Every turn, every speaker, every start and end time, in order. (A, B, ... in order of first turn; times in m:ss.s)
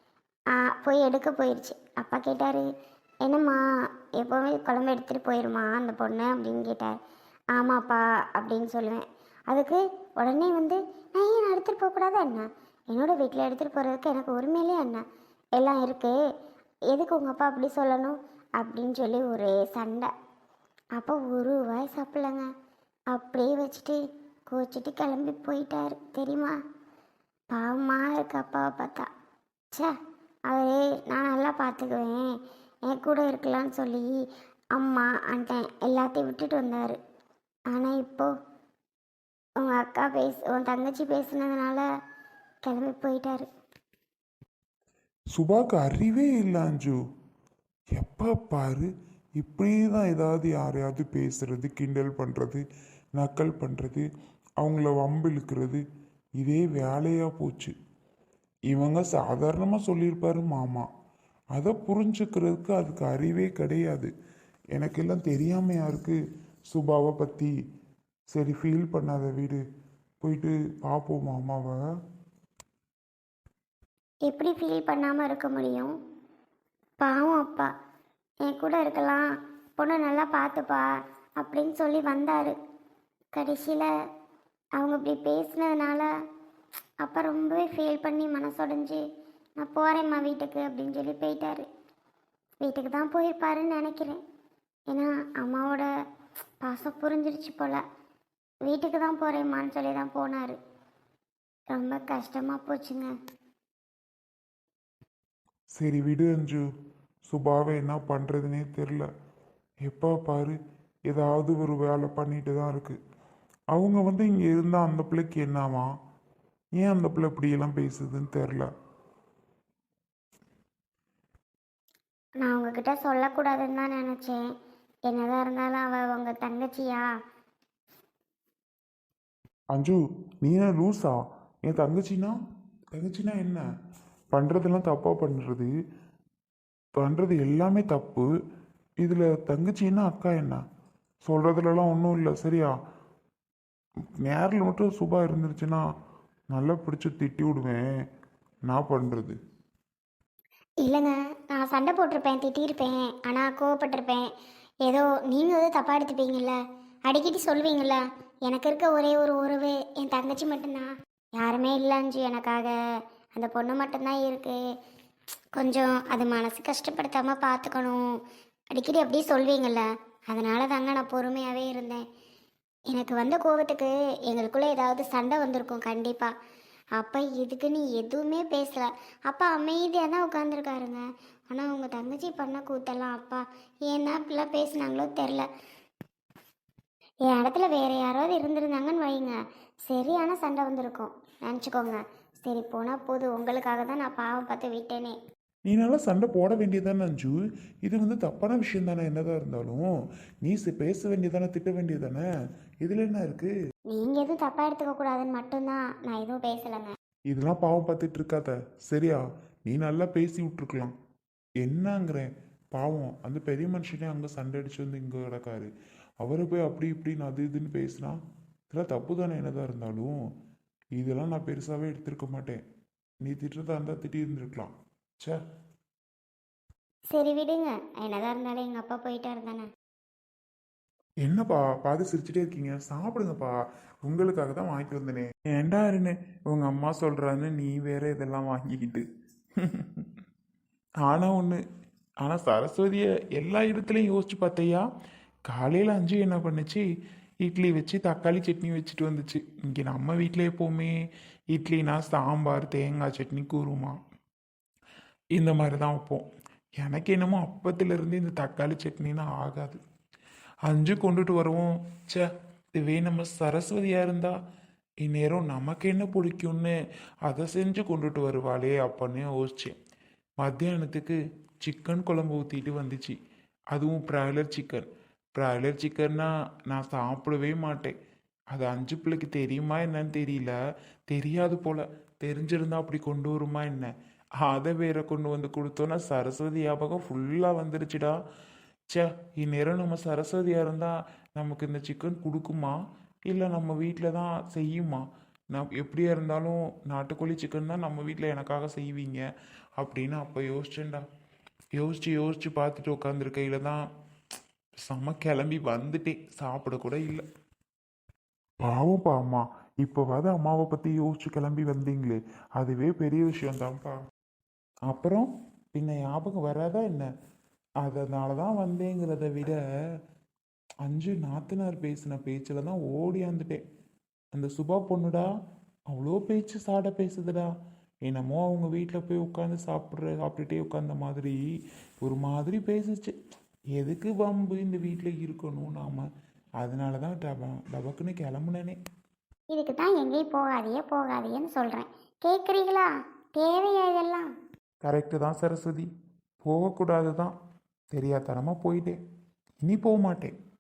0:00.5-0:02.6 A
0:03.2-0:03.6 A
0:04.2-0:07.0 A
0:07.5-0:15.0 A
0:15.6-0:16.2 A
0:16.9-0:20.1 A
0:21.0-0:22.5 A
0:23.1-0:26.6 A
0:27.5-0:29.1 A
0:30.5-0:34.2 A
0:34.7-0:37.0 A
0:37.7-0:38.3 A
0:39.6-0:41.8 A
0:42.6-0:43.5 A
0:45.3-0:47.0 B
0:48.0-0:52.6 B
0:53.2-0:54.1 B
0:54.6-0:55.8 B
0:56.4-0:57.7 B
0:58.7-1:00.9 B
1:01.6-1:04.1 B
1:04.7-1:06.2 B
1:06.7-1:07.5 B
1:08.3-1:09.6 B
1:10.2-1:11.8 B
1:14.3-1:15.9 A
1:17.0-1:17.7 A
1:18.4-1:19.3 A
1:19.8-1:20.9 A
1:21.4-1:22.6 A
1:23.3-1:23.9 A
1:24.8-1:26.1 A
1:27.0-1:29.0 A
1:29.6-1:31.7 A
1:32.6-1:34.2 A
1:34.9-1:35.9 A
1:36.6-1:37.8 A
1:38.6-1:40.6 A
1:41.7-1:43.1 A
1:45.8-1:46.6 B
1:47.3-1:49.1 B
1:49.9-1:50.6 B
1:51.1-1:53.0 B
1:53.7-1:55.9 B
1:56.8-1:58.7 B
2:02.4-2:04.4 A
2:05.1-2:07.1 A
2:09.7-2:12.4 B
2:12.9-2:13.6 B
2:14.3-2:15.7 B
2:17.0-2:18.3 B
2:19.0-2:20.6 B
2:21.3-2:22.7 B
2:24.2-2:25.8 B
2:26.5-2:27.8 B
2:28.7-2:29.4 B
2:30.8-2:34.3 A
2:34.9-2:42.8 A
2:43.4-2:44.6 A
2:45.5-2:48.2 A
2:48.7-2:52.0 A
2:52.9-2:56.3 A
2:57.0-3:05.5 A
3:07.3-3:09.4 A
3:09.9-3:15.2 A
3:15.7-3:19.9 B
3:20.4-3:22.2 B
3:22.8-3:23.5 B
3:23.9-3:27.0 A
3:27.3-3:30.9 B
3:31.6-3:35.7 B
3:36.2-3:38.2 B
3:38.7-3:40.2 B
3:41.0-3:42.6 B
3:43.2-3:45.4 B
3:47.1-3:49.7 A
3:51.2-3:59.0 B
3:59.6-4:00.0 B
4:01.0-4:01.6 B
4:02.2-4:04.8 B
4:05.5-4:06.8 B
4:07.4-4:11.0 B
4:11.5-4:14.0 B
4:15.3-4:16.3 B
4:16.8-4:19.8 B
4:20.6-4:24.4 B
4:25.0-4:29.8 B
4:30.4-4:33.2 B
4:33.7-4:37.9 B
4:38.5-4:40.6 B
4:41.1-4:48.2 B
4:48.9-4:52.8 B
4:53.3-4:59.2 B
4:59.8-5:01.0 B
5:01.8-5:03.8 B
5:04.9-5:07.2 B
5:08.6-5:14.0 B
5:14.9-5:17.1 B
5:17.8-5:19.6 B
5:20.8-5:23.6 B
5:24.3-5:25.3 B
5:25.9-5:27.5 B
5:28.0-5:31.4 B
5:32.0-5:33.1 B
5:33.8-5:36.1 B
5:36.6-5:38.8 B
5:39.5-5:44.3 A
5:44.8-5:45.9 B
5:46.4-5:47.3 B
5:47.9-5:49.0 B
5:49.6-5:50.3 B